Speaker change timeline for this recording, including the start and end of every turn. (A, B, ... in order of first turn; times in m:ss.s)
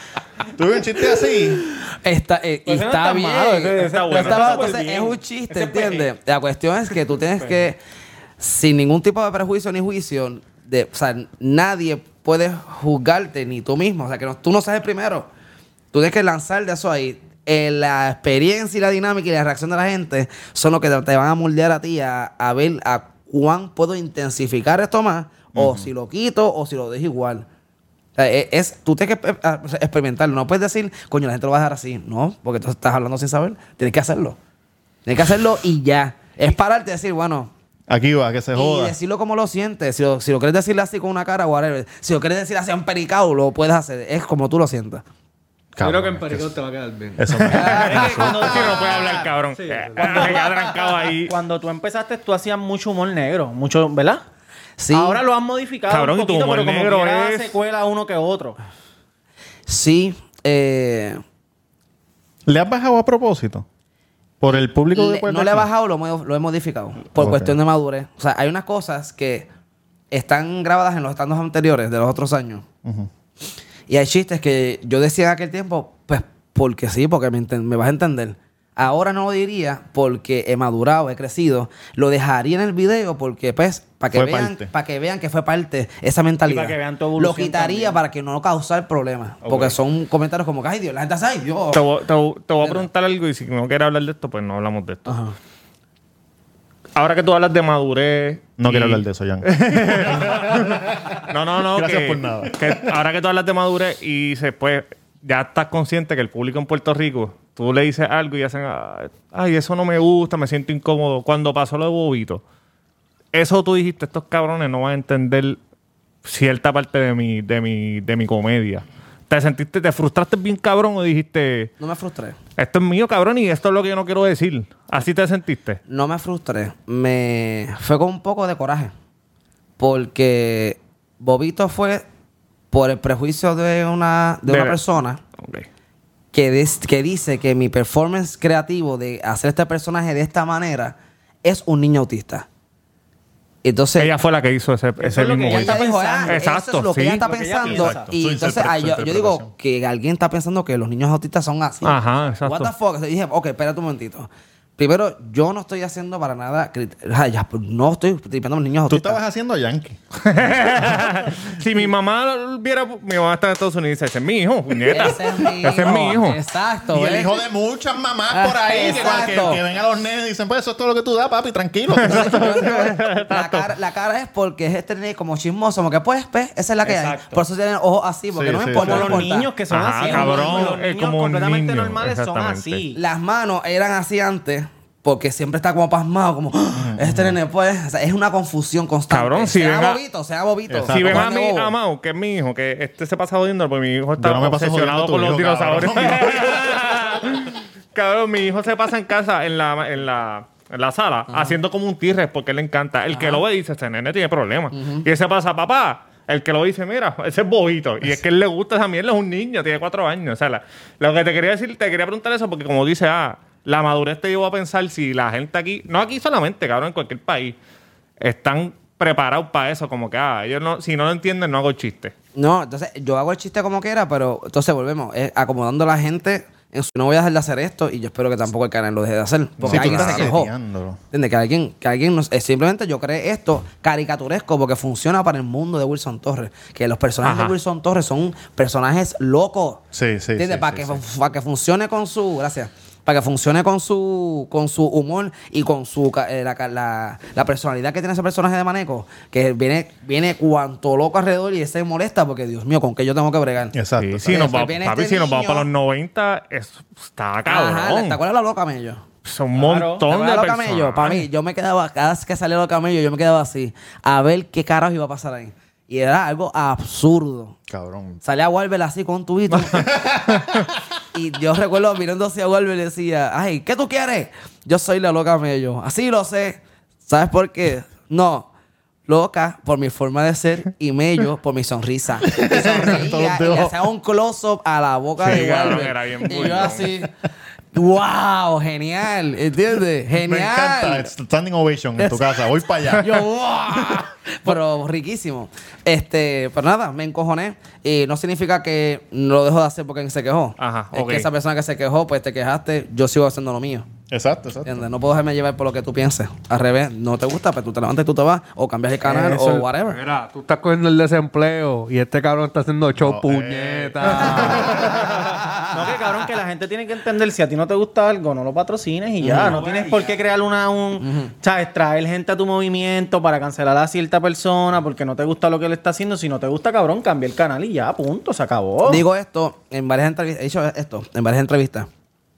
0:00.5-0:01.6 A
0:01.5-0:07.8 B
0:02.7-0:06.1 C
0:03.6-0:04.6 D
0:08.4-0:15.3 B
0:15.9-0:27.5 B
0:25.5-0:25.9 A
0:28.2-0:34.4 B
0:35.1-0:37.5 B
0:37.9-0:39.0 A
0:38.6-0:45.0 B
0:45.8-0:46.5 A
0:45.8-0:47.8 E
0:47.2-0:48.8 A
0:47.4-0:48.3 B
0:47.7-0:51.3 D
0:47.7-0:49.2 C
0:48.9-0:50.6 E
0:49.9-0:54.2 C
0:54.8-0:55.2 B
0:54.9-0:58.6 C
0:55.9-0:57.5 D
0:59.7-1:01.2 B
1:02.5-1:03.7 A
1:04.4-1:05.7 A
1:04.5-1:09.5 B
1:07.2-1:07.6 A
1:10.1-1:12.6 B
1:13.9-1:31.9 B
1:24.1-1:24.7 A
1:26.5-1:28.0 C
1:29.4-1:29.8 C
1:31.7-1:35.2 D
1:32.6-1:32.9 B
1:35.1-1:35.4 B
1:37.0-1:52.4 D
1:38.6-1:42.9 A
1:53.3-1:55.6 D
1:56.2-2:01.7 D
2:01.8-2:02.4 B
2:02.6-2:05.8 D
2:05.9-2:08.9 B
2:09.8-2:12.0 B
2:12.7-2:15.2 B
2:14.5-2:14.8 D
2:15.4-2:15.7 D
2:16.3-2:22.5 B
2:23.6-2:24.1 B
2:24.0-2:27.3 D
2:25.0-2:26.4 C
2:25.5-2:39.2 B
2:27.2-2:28.1 C
2:27.7-2:29.5 A
2:31.8-2:32.7 D
2:38.9-2:40.0 A
2:40.2-2:46.4 D
2:44.8-2:47.3 B
2:46.9-2:52.7 A
2:48.3-2:49.6 B
2:52.0-2:53.7 D
2:52.0-2:59.5 B
2:56.8-2:57.4 C
2:58.3-2:59.2 A
2:58.7-3:03.0 C
2:59.7-3:02.8 D
3:00.0-3:00.7 B
3:00.4-3:00.7 E
3:03.0-3:11.8 B
3:06.7-3:07.4 A
3:09.1-3:10.0 D
3:10.7-3:11.3 A
3:10.9-3:37.6 D
3:14.2-3:16.9 A
3:21.3-3:21.6 B
3:23.1-3:23.4 B
3:24.7-3:25.1 B
3:38.2-3:42.1 D
3:42.4-3:50.5 B
3:49.6-3:50.3 D
3:49.6-3:51.0 A
3:51.1-3:59.9 B
3:57.2-3:57.6 D
3:59.9-4:01.0 A
4:00.4-4:13.7 B
4:13.7-4:14.4 A
4:14.0-4:18.2 D
4:14.3-4:15.7 B
4:17.5-4:19.0 B
4:19.2-4:21.2 D
4:19.6-4:20.0 C
4:20.1-4:27.6 B
4:27.7-4:28.2 A
4:28.2-4:29.9 B
4:29.5-4:30.6 D
4:29.9-4:30.8 A
4:31.1-4:38.5 B
4:39.1-4:47.1 B
4:42.3-4:43.8 A
4:45.2-4:47.0 D
4:47.7-4:51.1 B
4:50.1-4:53.3 A
4:52.0-5:03.9 B
5:00.6-5:01.3 D
5:04.1-5:04.9 A
5:04.6-5:10.0 B
5:09.0-5:15.2 E
5:13.0-5:14.7 A
5:14.3-5:15.7 B
5:14.5-5:29.0 C
5:19.2-5:19.6 B
5:19.4-5:20.2 E
5:21.0-5:21.3 B
5:28.8-5:31.9 B